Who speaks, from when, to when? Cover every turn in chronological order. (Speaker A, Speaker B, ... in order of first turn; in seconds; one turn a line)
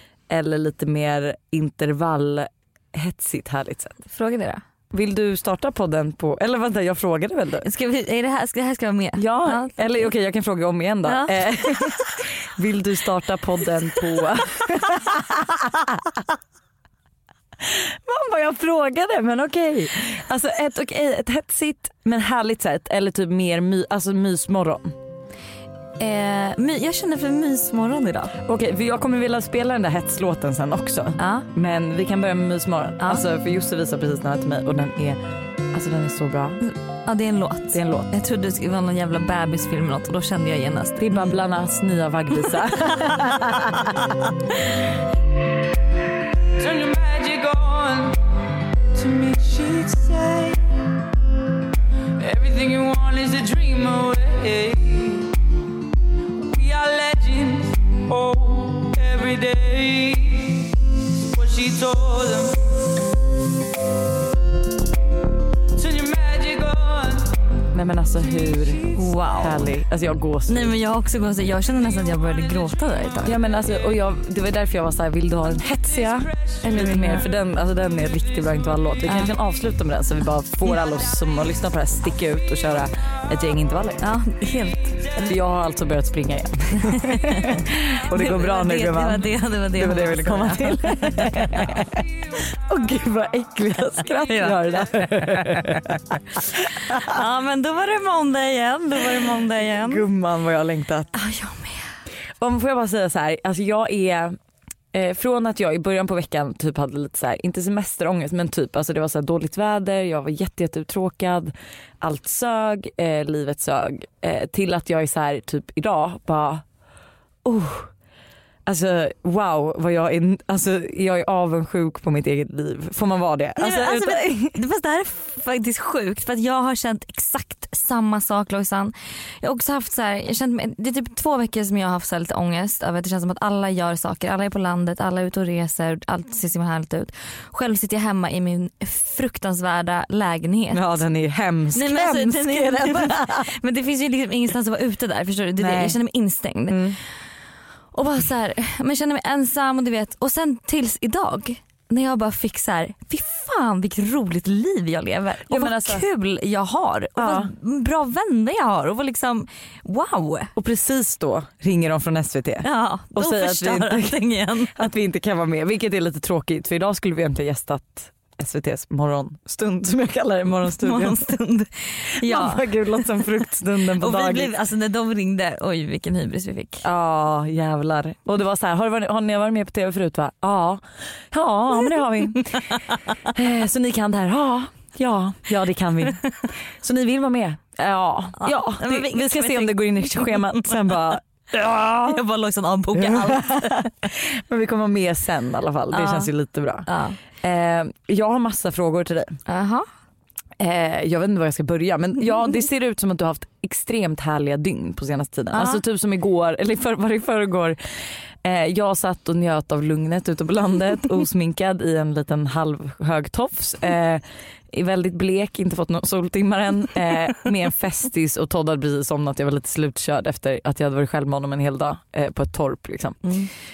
Speaker A: 0.3-4.0
Speaker B: 4.1-4.6
Speaker A: 4.9-7.7
Speaker B: 7.6-10.1
Speaker A: 9.2-16.2
Speaker B: 11.1-12.1
Speaker A: 17.6-24.9
Speaker B: 26.0-28.4
Speaker A: 28.4-35.2
Speaker B: 31.2-31.5
Speaker A: 35.7-36.6
Speaker B: 36.6-41.4
Speaker A: 37.7-38.1
Speaker A: 41.0-44.0
Speaker B: 43.0-43.3
Speaker C: 46.5-48.2
Speaker C: 48.9-50.8
Speaker C: 52.2-55.4
Speaker C: 56.4-62.9
Speaker C: 65.7-67.4
Speaker A: 67.7-70.8
Speaker C: 68.4-69.0
Speaker B: 69.0-69.7
Speaker B: 70.5-73.4
Speaker C: 72.0-73.8
Speaker A: 73.2-84.0
Speaker C: 75.6-76.6
Speaker B: 76.6-77.3
Speaker B: 79.1-79.3
Speaker B: 84.0-85.2
Speaker A: 85.2-97.2
Speaker B: 86.8-87.5
Speaker B: 88.1-91.5
Speaker B: 94.2-94.8
Speaker B: 96.9-100.0
Speaker A: 99.7-101.1
Speaker B: 101.1-102.0
Speaker A: 102.4-104.4
Speaker A: 104.9-116.7
Speaker A: 117.4-117.9
Speaker A: 118.7-124.6
Speaker B: 123.6-140.9
Speaker A: 140.7-143.5
Speaker B: 141.7-147.1
Speaker A: 145.6-146.0
Speaker A: 146.7-147.0
Speaker B: 147.9-160.5
Speaker A: 155.5-156.0
Speaker A: 157.2-157.5
Speaker A: 160.6-164.2
Speaker B: 162.6-164.7
Speaker A: 164.8-171.3
Speaker B: 170.8-173.4
Speaker A: 172.2-174.5
Speaker B: 174.0-176.8
Speaker A: 176.8-192.1
Speaker B: 188.4-190.9
Speaker B: 191.6-193.8
Speaker A: 192.9-196.9
Speaker B: 195.9-196.3
Speaker B: 196.9-197.2
Speaker A: 197.4-199.4
Speaker B: 199.5-199.9
Speaker A: 200.6-223.4
Speaker B: 205.5-205.8
Speaker B: 223.2-223.5